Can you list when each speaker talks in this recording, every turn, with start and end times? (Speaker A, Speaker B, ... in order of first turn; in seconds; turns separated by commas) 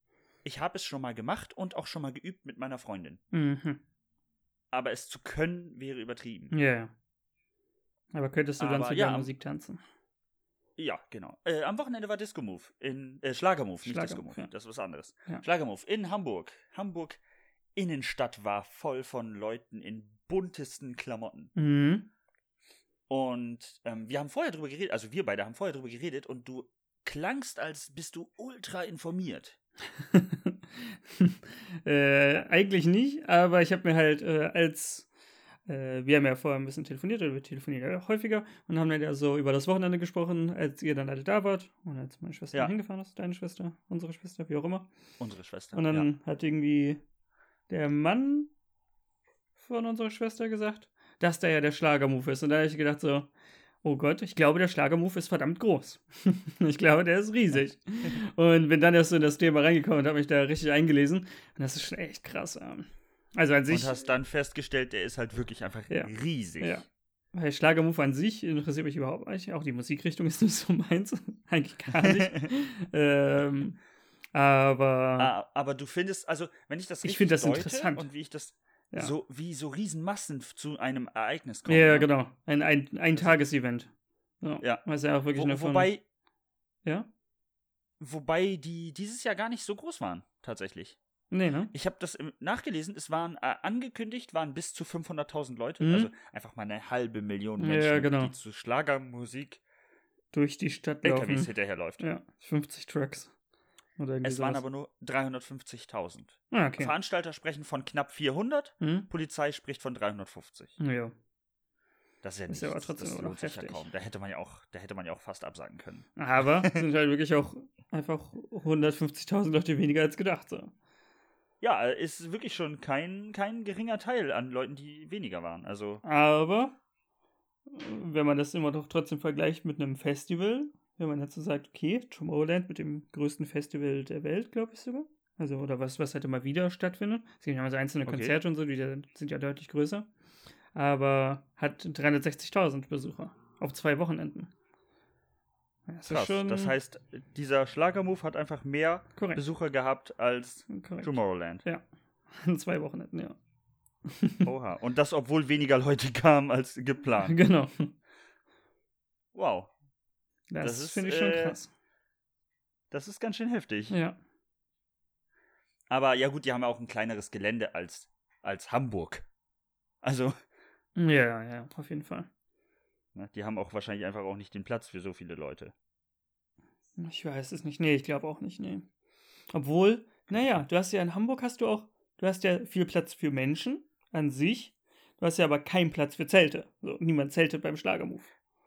Speaker A: 0.4-3.2, Speaker B: 3.3-3.8, Speaker A: 4.7-6.5, Speaker B: 6.5-6.9, Speaker B: 8.1-9.8, Speaker A: 8.6-9.3, Speaker A: 10.8-17.2, Speaker B: 13.8-14.5, Speaker A: 17.7-21.5, Speaker B: 21.6-22.1, Speaker A: 23.1-29.6, Speaker B: 29.9-35.1, Speaker B: 35.7-44.9, Speaker A: 45.2-46.1, Speaker B: 45.7-47.0, Speaker B: 47.7-48.5, Speaker B: 49.5-53.3, Speaker B: 53.8-64.0, Speaker A: 63.7-66.8, Speaker B: 65.9-73.8, Speaker A: 72.0-72.5, Speaker B: 74.3-75.3, Speaker A: 75.2-82.1, Speaker B: 77.0-78.1, Speaker B: 81.7-83.9, Speaker B: 84.4-85.9, Speaker A: 84.6-86.0, Speaker A: 88.0-91.0, Speaker B: 91.3-91.7, Speaker A: 91.7-99.6, Speaker B: 95.8-96.1, Speaker B: 97.6-98.3, Speaker B: 100.3-103.3, Speaker A: 101.0-102.0, Speaker B: 104.0-104.6, Speaker A: 104.2-110.8, Speaker B: 106.5-106.9, Speaker B: 108.8-109.1, Speaker B: 110.8-111.1, Speaker A: 112.2-116.8, Speaker B: 112.5-113.8, Speaker B: 116.2-120.7, Speaker A: 121.6-126.0, Speaker B: 126.0-126.8, Speaker B: 127.7-140.1, Speaker A: 138.1-138.4, Speaker B: 140.7-144.5, Speaker B: 145.9-146.7, Speaker A: 146.1-151.6, Speaker B: 149.2-149.4, Speaker B: 150.7-153.4, Speaker B: 154.0-154.5, Speaker A: 154.4-157.4, Speaker B: 157.2-157.9, Speaker A: 159.3-159.7, Speaker B: 160.5-161.7, Speaker A: 160.6-161.6, Speaker A: 162.9-164.0, Speaker B: 163.9-164.2, Speaker A: 165.9-169.3, Speaker A: 170.0-170.3, Speaker B: 170.9-172.3, Speaker A: 173.1-175.7, Speaker B: 177.0-178.9, Speaker B: 179.5-188.3, Speaker A: 180.3-180.7